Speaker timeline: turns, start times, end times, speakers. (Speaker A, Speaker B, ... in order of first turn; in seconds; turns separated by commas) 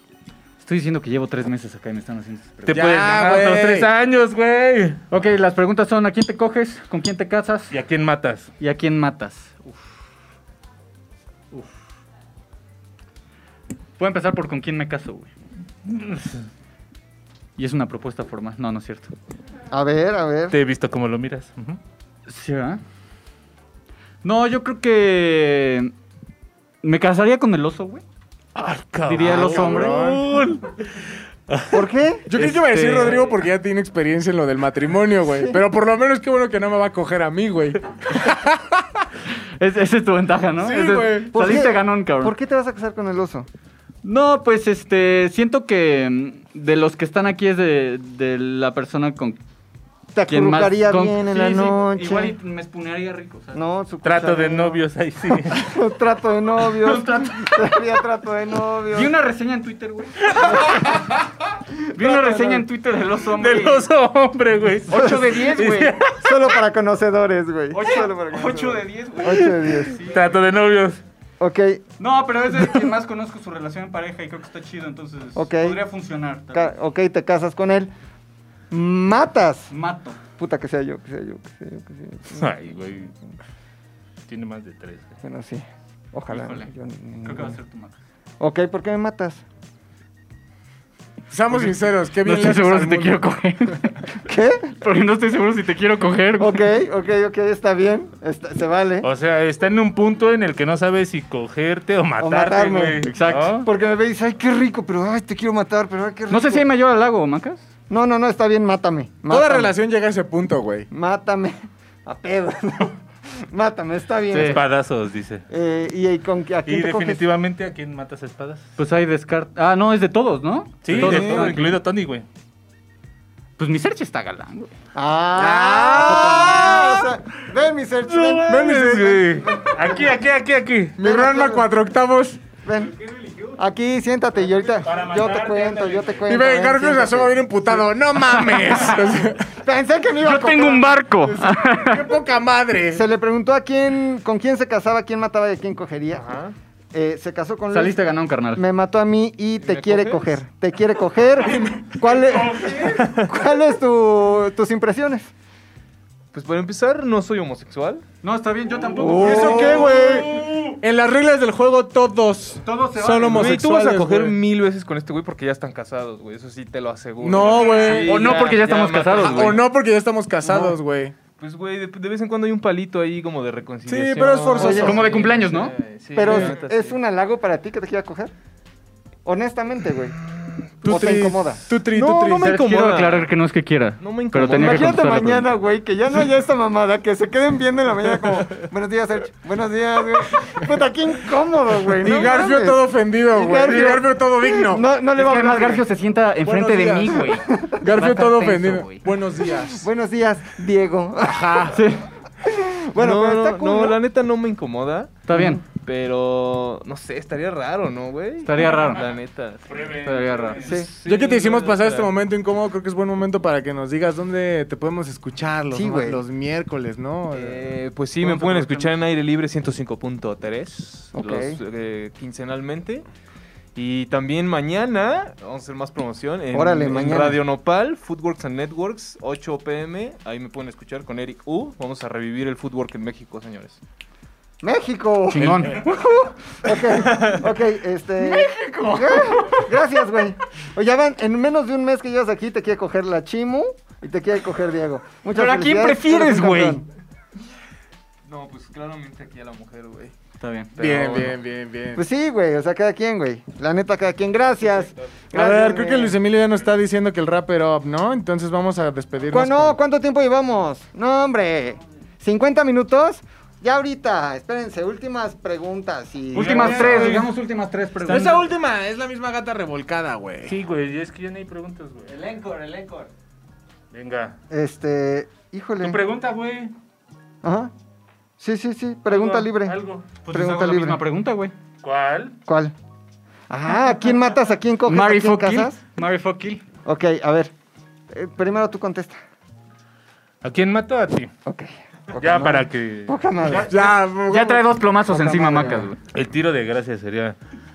Speaker A: 0.6-2.9, Speaker B: 2.7-5.0, Speaker C: 2.7-3.9, Speaker A: 5.1-7.7, Speaker B: 7.7-8.5, Speaker A: 8.6-9.9, Speaker A: 14.0-15.3, Speaker B: 15.9-16.5, Speaker A: 17.6-19.1, Speaker D: 19.7-20.6, Speaker B: 20.5-21.8, Speaker A: 22.3-22.8, Speaker A: 24.2-25.9, Speaker A: 26.8-28.0, Speaker B: 28.6-31.8, Speaker A: 29.1-30.0, Speaker C: 29.2-30.3, Speaker D: 31.7-32.3, Speaker C: 32.3-39.0, Speaker A: 32.4-33.2, Speaker A: 39.6-42.3, Speaker C: 40.6-41.7, Speaker D: 41.3-43.5, Speaker A: 44.0-49.4, Speaker D: 50.1-52.3, Speaker A: 50.3-53.6, Speaker D: 53.5-59.1, Speaker B: 54.0-55.7, Speaker A: 56.8-57.7, Speaker A: 58.9-61.0, Speaker D: 60.3-61.1, Speaker A: 62.0-63.8, Speaker D: 62.0-62.6, Speaker B: 63.3-66.5, Speaker A: 64.9-66.0, Speaker D: 64.9-65.3, Speaker D: 66.2-70.0, Speaker A: 67.7-70.4, Speaker B: 70.0-71.0, Speaker D: 71.4-71.8, Speaker A: 72.0-76.7, Speaker D: 75.4-75.8, Speaker D: 76.5-77.9, Speaker D: 78.7-79.7, Speaker A: 79.7-80.2, Speaker D: 80.4-82.6, Speaker B: 82.3-83.1, Speaker B: 84.3-85.2, Speaker D: 85.2-87.5, Speaker A: 86.3-86.7, Speaker A: 87.2-88.0, Speaker D: 88.4-89.4, Speaker C: 91.3-93.2, Speaker A: 92.2-94.0, Speaker D: 94.3-94.7, Speaker A: 94.8-96.7, Speaker D: 96.4-99.1, Speaker B: 99.0-103.7, Speaker D: 102.2-103.0, Speaker A: 103.1-103.5, Speaker D: 103.6-106.7, Speaker A: 106.3-107.6, Speaker D: 107.9-109.7, Speaker C: 109.3-110.9, Speaker D: 110.9-113.0, Speaker D: 113.5-114.6, Speaker A: 114.3-114.6, Speaker B: 114.3-115.5, Speaker D: 115.5-117.2, Speaker B: 116.6-118.7, Speaker A: 118.8-121.8, Speaker B: 120.8-122.2, Speaker C: 121.0-121.4, Speaker A: 123.6-124.7, Speaker D: 125.0-130.1, Speaker C: 125.3-127.1, Speaker B: 128.1-131.0, Speaker C: 128.4-129.4, Speaker C: 131.0-132.4, Speaker D: 131.0-131.6, Speaker D: 132.6-137.4, Speaker B: 134.7-136.3, Speaker C: 136.3-139.5, Speaker D: 139.5-140.9, Speaker A: 140.2-142.1, Speaker C: 141.2-143.1, Speaker D: 142.9-146.3, Speaker D: 146.9-147.9, Speaker A: 147.7-148.6, Speaker D: 148.6-155.3, Speaker E: 149.6-150.4, Speaker B: 152.2-153.3, Speaker E: 156.3-158.0, Speaker A: 158.2-160.3, Speaker C: 159.0-164.4, Speaker E: 159.1-160.3, Speaker B: 160.4-160.8, Speaker A: 162.6-163.6, Speaker E: 163.3-169.7, Speaker C: 167.2-168.4, Speaker A: 167.4-169.6, Speaker C: 169.2-171.2, Speaker E: 171.4-177.0, Speaker C: 173.9-175.0, Speaker D: 174.6-175.1, Speaker A: 174.6-175.7, Speaker D: 176.1-178.3, Speaker C: 176.3-176.6, Speaker D: 179.2-180.2, Speaker D: 180.8-181.8, Speaker C: 180.8-182.5, Speaker E: 181.8-183.3, Speaker A: 182.4-185.5, Speaker E: 184.0-185.3, Speaker D: 184.6-195.8, Speaker C: 192.0-194.8, Speaker A: 195.2-199.0, Speaker C: 196.4-199.9, Speaker D: 197.5-197.8, Speaker D: 199.7-201.6, Speaker C: 201.2-201.8, Speaker A: 201.7-202.1, Speaker D: 202.4-204.0, Speaker E: 202.9-212.1, Speaker A: 205.3-205.6, Speaker A: 208.4-209.1, Speaker B: 208.6-209.1, Speaker B: 209.7-210.9, Speaker A: 210.1-210.6, Speaker C: 211.1-217.7, Speaker D: 215.7-216.2, Speaker E: 217.3-223.1, Speaker C: 218.3-218.6, Speaker A: 218.4-218.9, Speaker D: 221.1-221.6, Speaker E: 223.7-233.8, Speaker D: 226.5-227.4, Speaker D: 234.6-246.8, Speaker A: 235.3-235.8, Speaker C: 235.4-235.7, Speaker A: 238.2-239.7, Speaker A: 245.3-246.8, Speaker E: 248.3-250.1, Speaker A: 250.4-250.7, Speaker E: 250.8-251.3, Speaker C: 250.8-252.0, Speaker D: 251.9-256.1, Speaker C: 255.3-259.8, Speaker D: 259.3-267.2, Speaker A: 266.3-268.5, Speaker C: 266.4-267.2, Speaker B: 266.4-267.2, Speaker C: 268.0-270.6, Speaker B: 270.5-272.3, Speaker E: 272.3-273.1, Speaker B: 273.9-274.4, Speaker D: 274.5-276.0, Speaker B: 275.8-276.7, Speaker D: 277.4-277.7, Speaker D: 278.4-279.8, Speaker B: 279.1-280.1, Speaker A: 280.2-281.5, Speaker D: 280.3-281.0, Speaker B: 281.8-282.4, Speaker D: 282.5-282.7, Speaker D: 283.5-285.8, Speaker A: 284.9-286.6, Speaker D: 286.9-287.5, Speaker D: 288.1-289.2, Speaker B: 290.4-291.3, Speaker D: 291.4-293.8, Speaker B: 292.1-293.6, Speaker A: 293.4-296.0, Speaker C: 293.7-294.6, Speaker D: 295.1-295.9, Speaker B: 296.1-297.4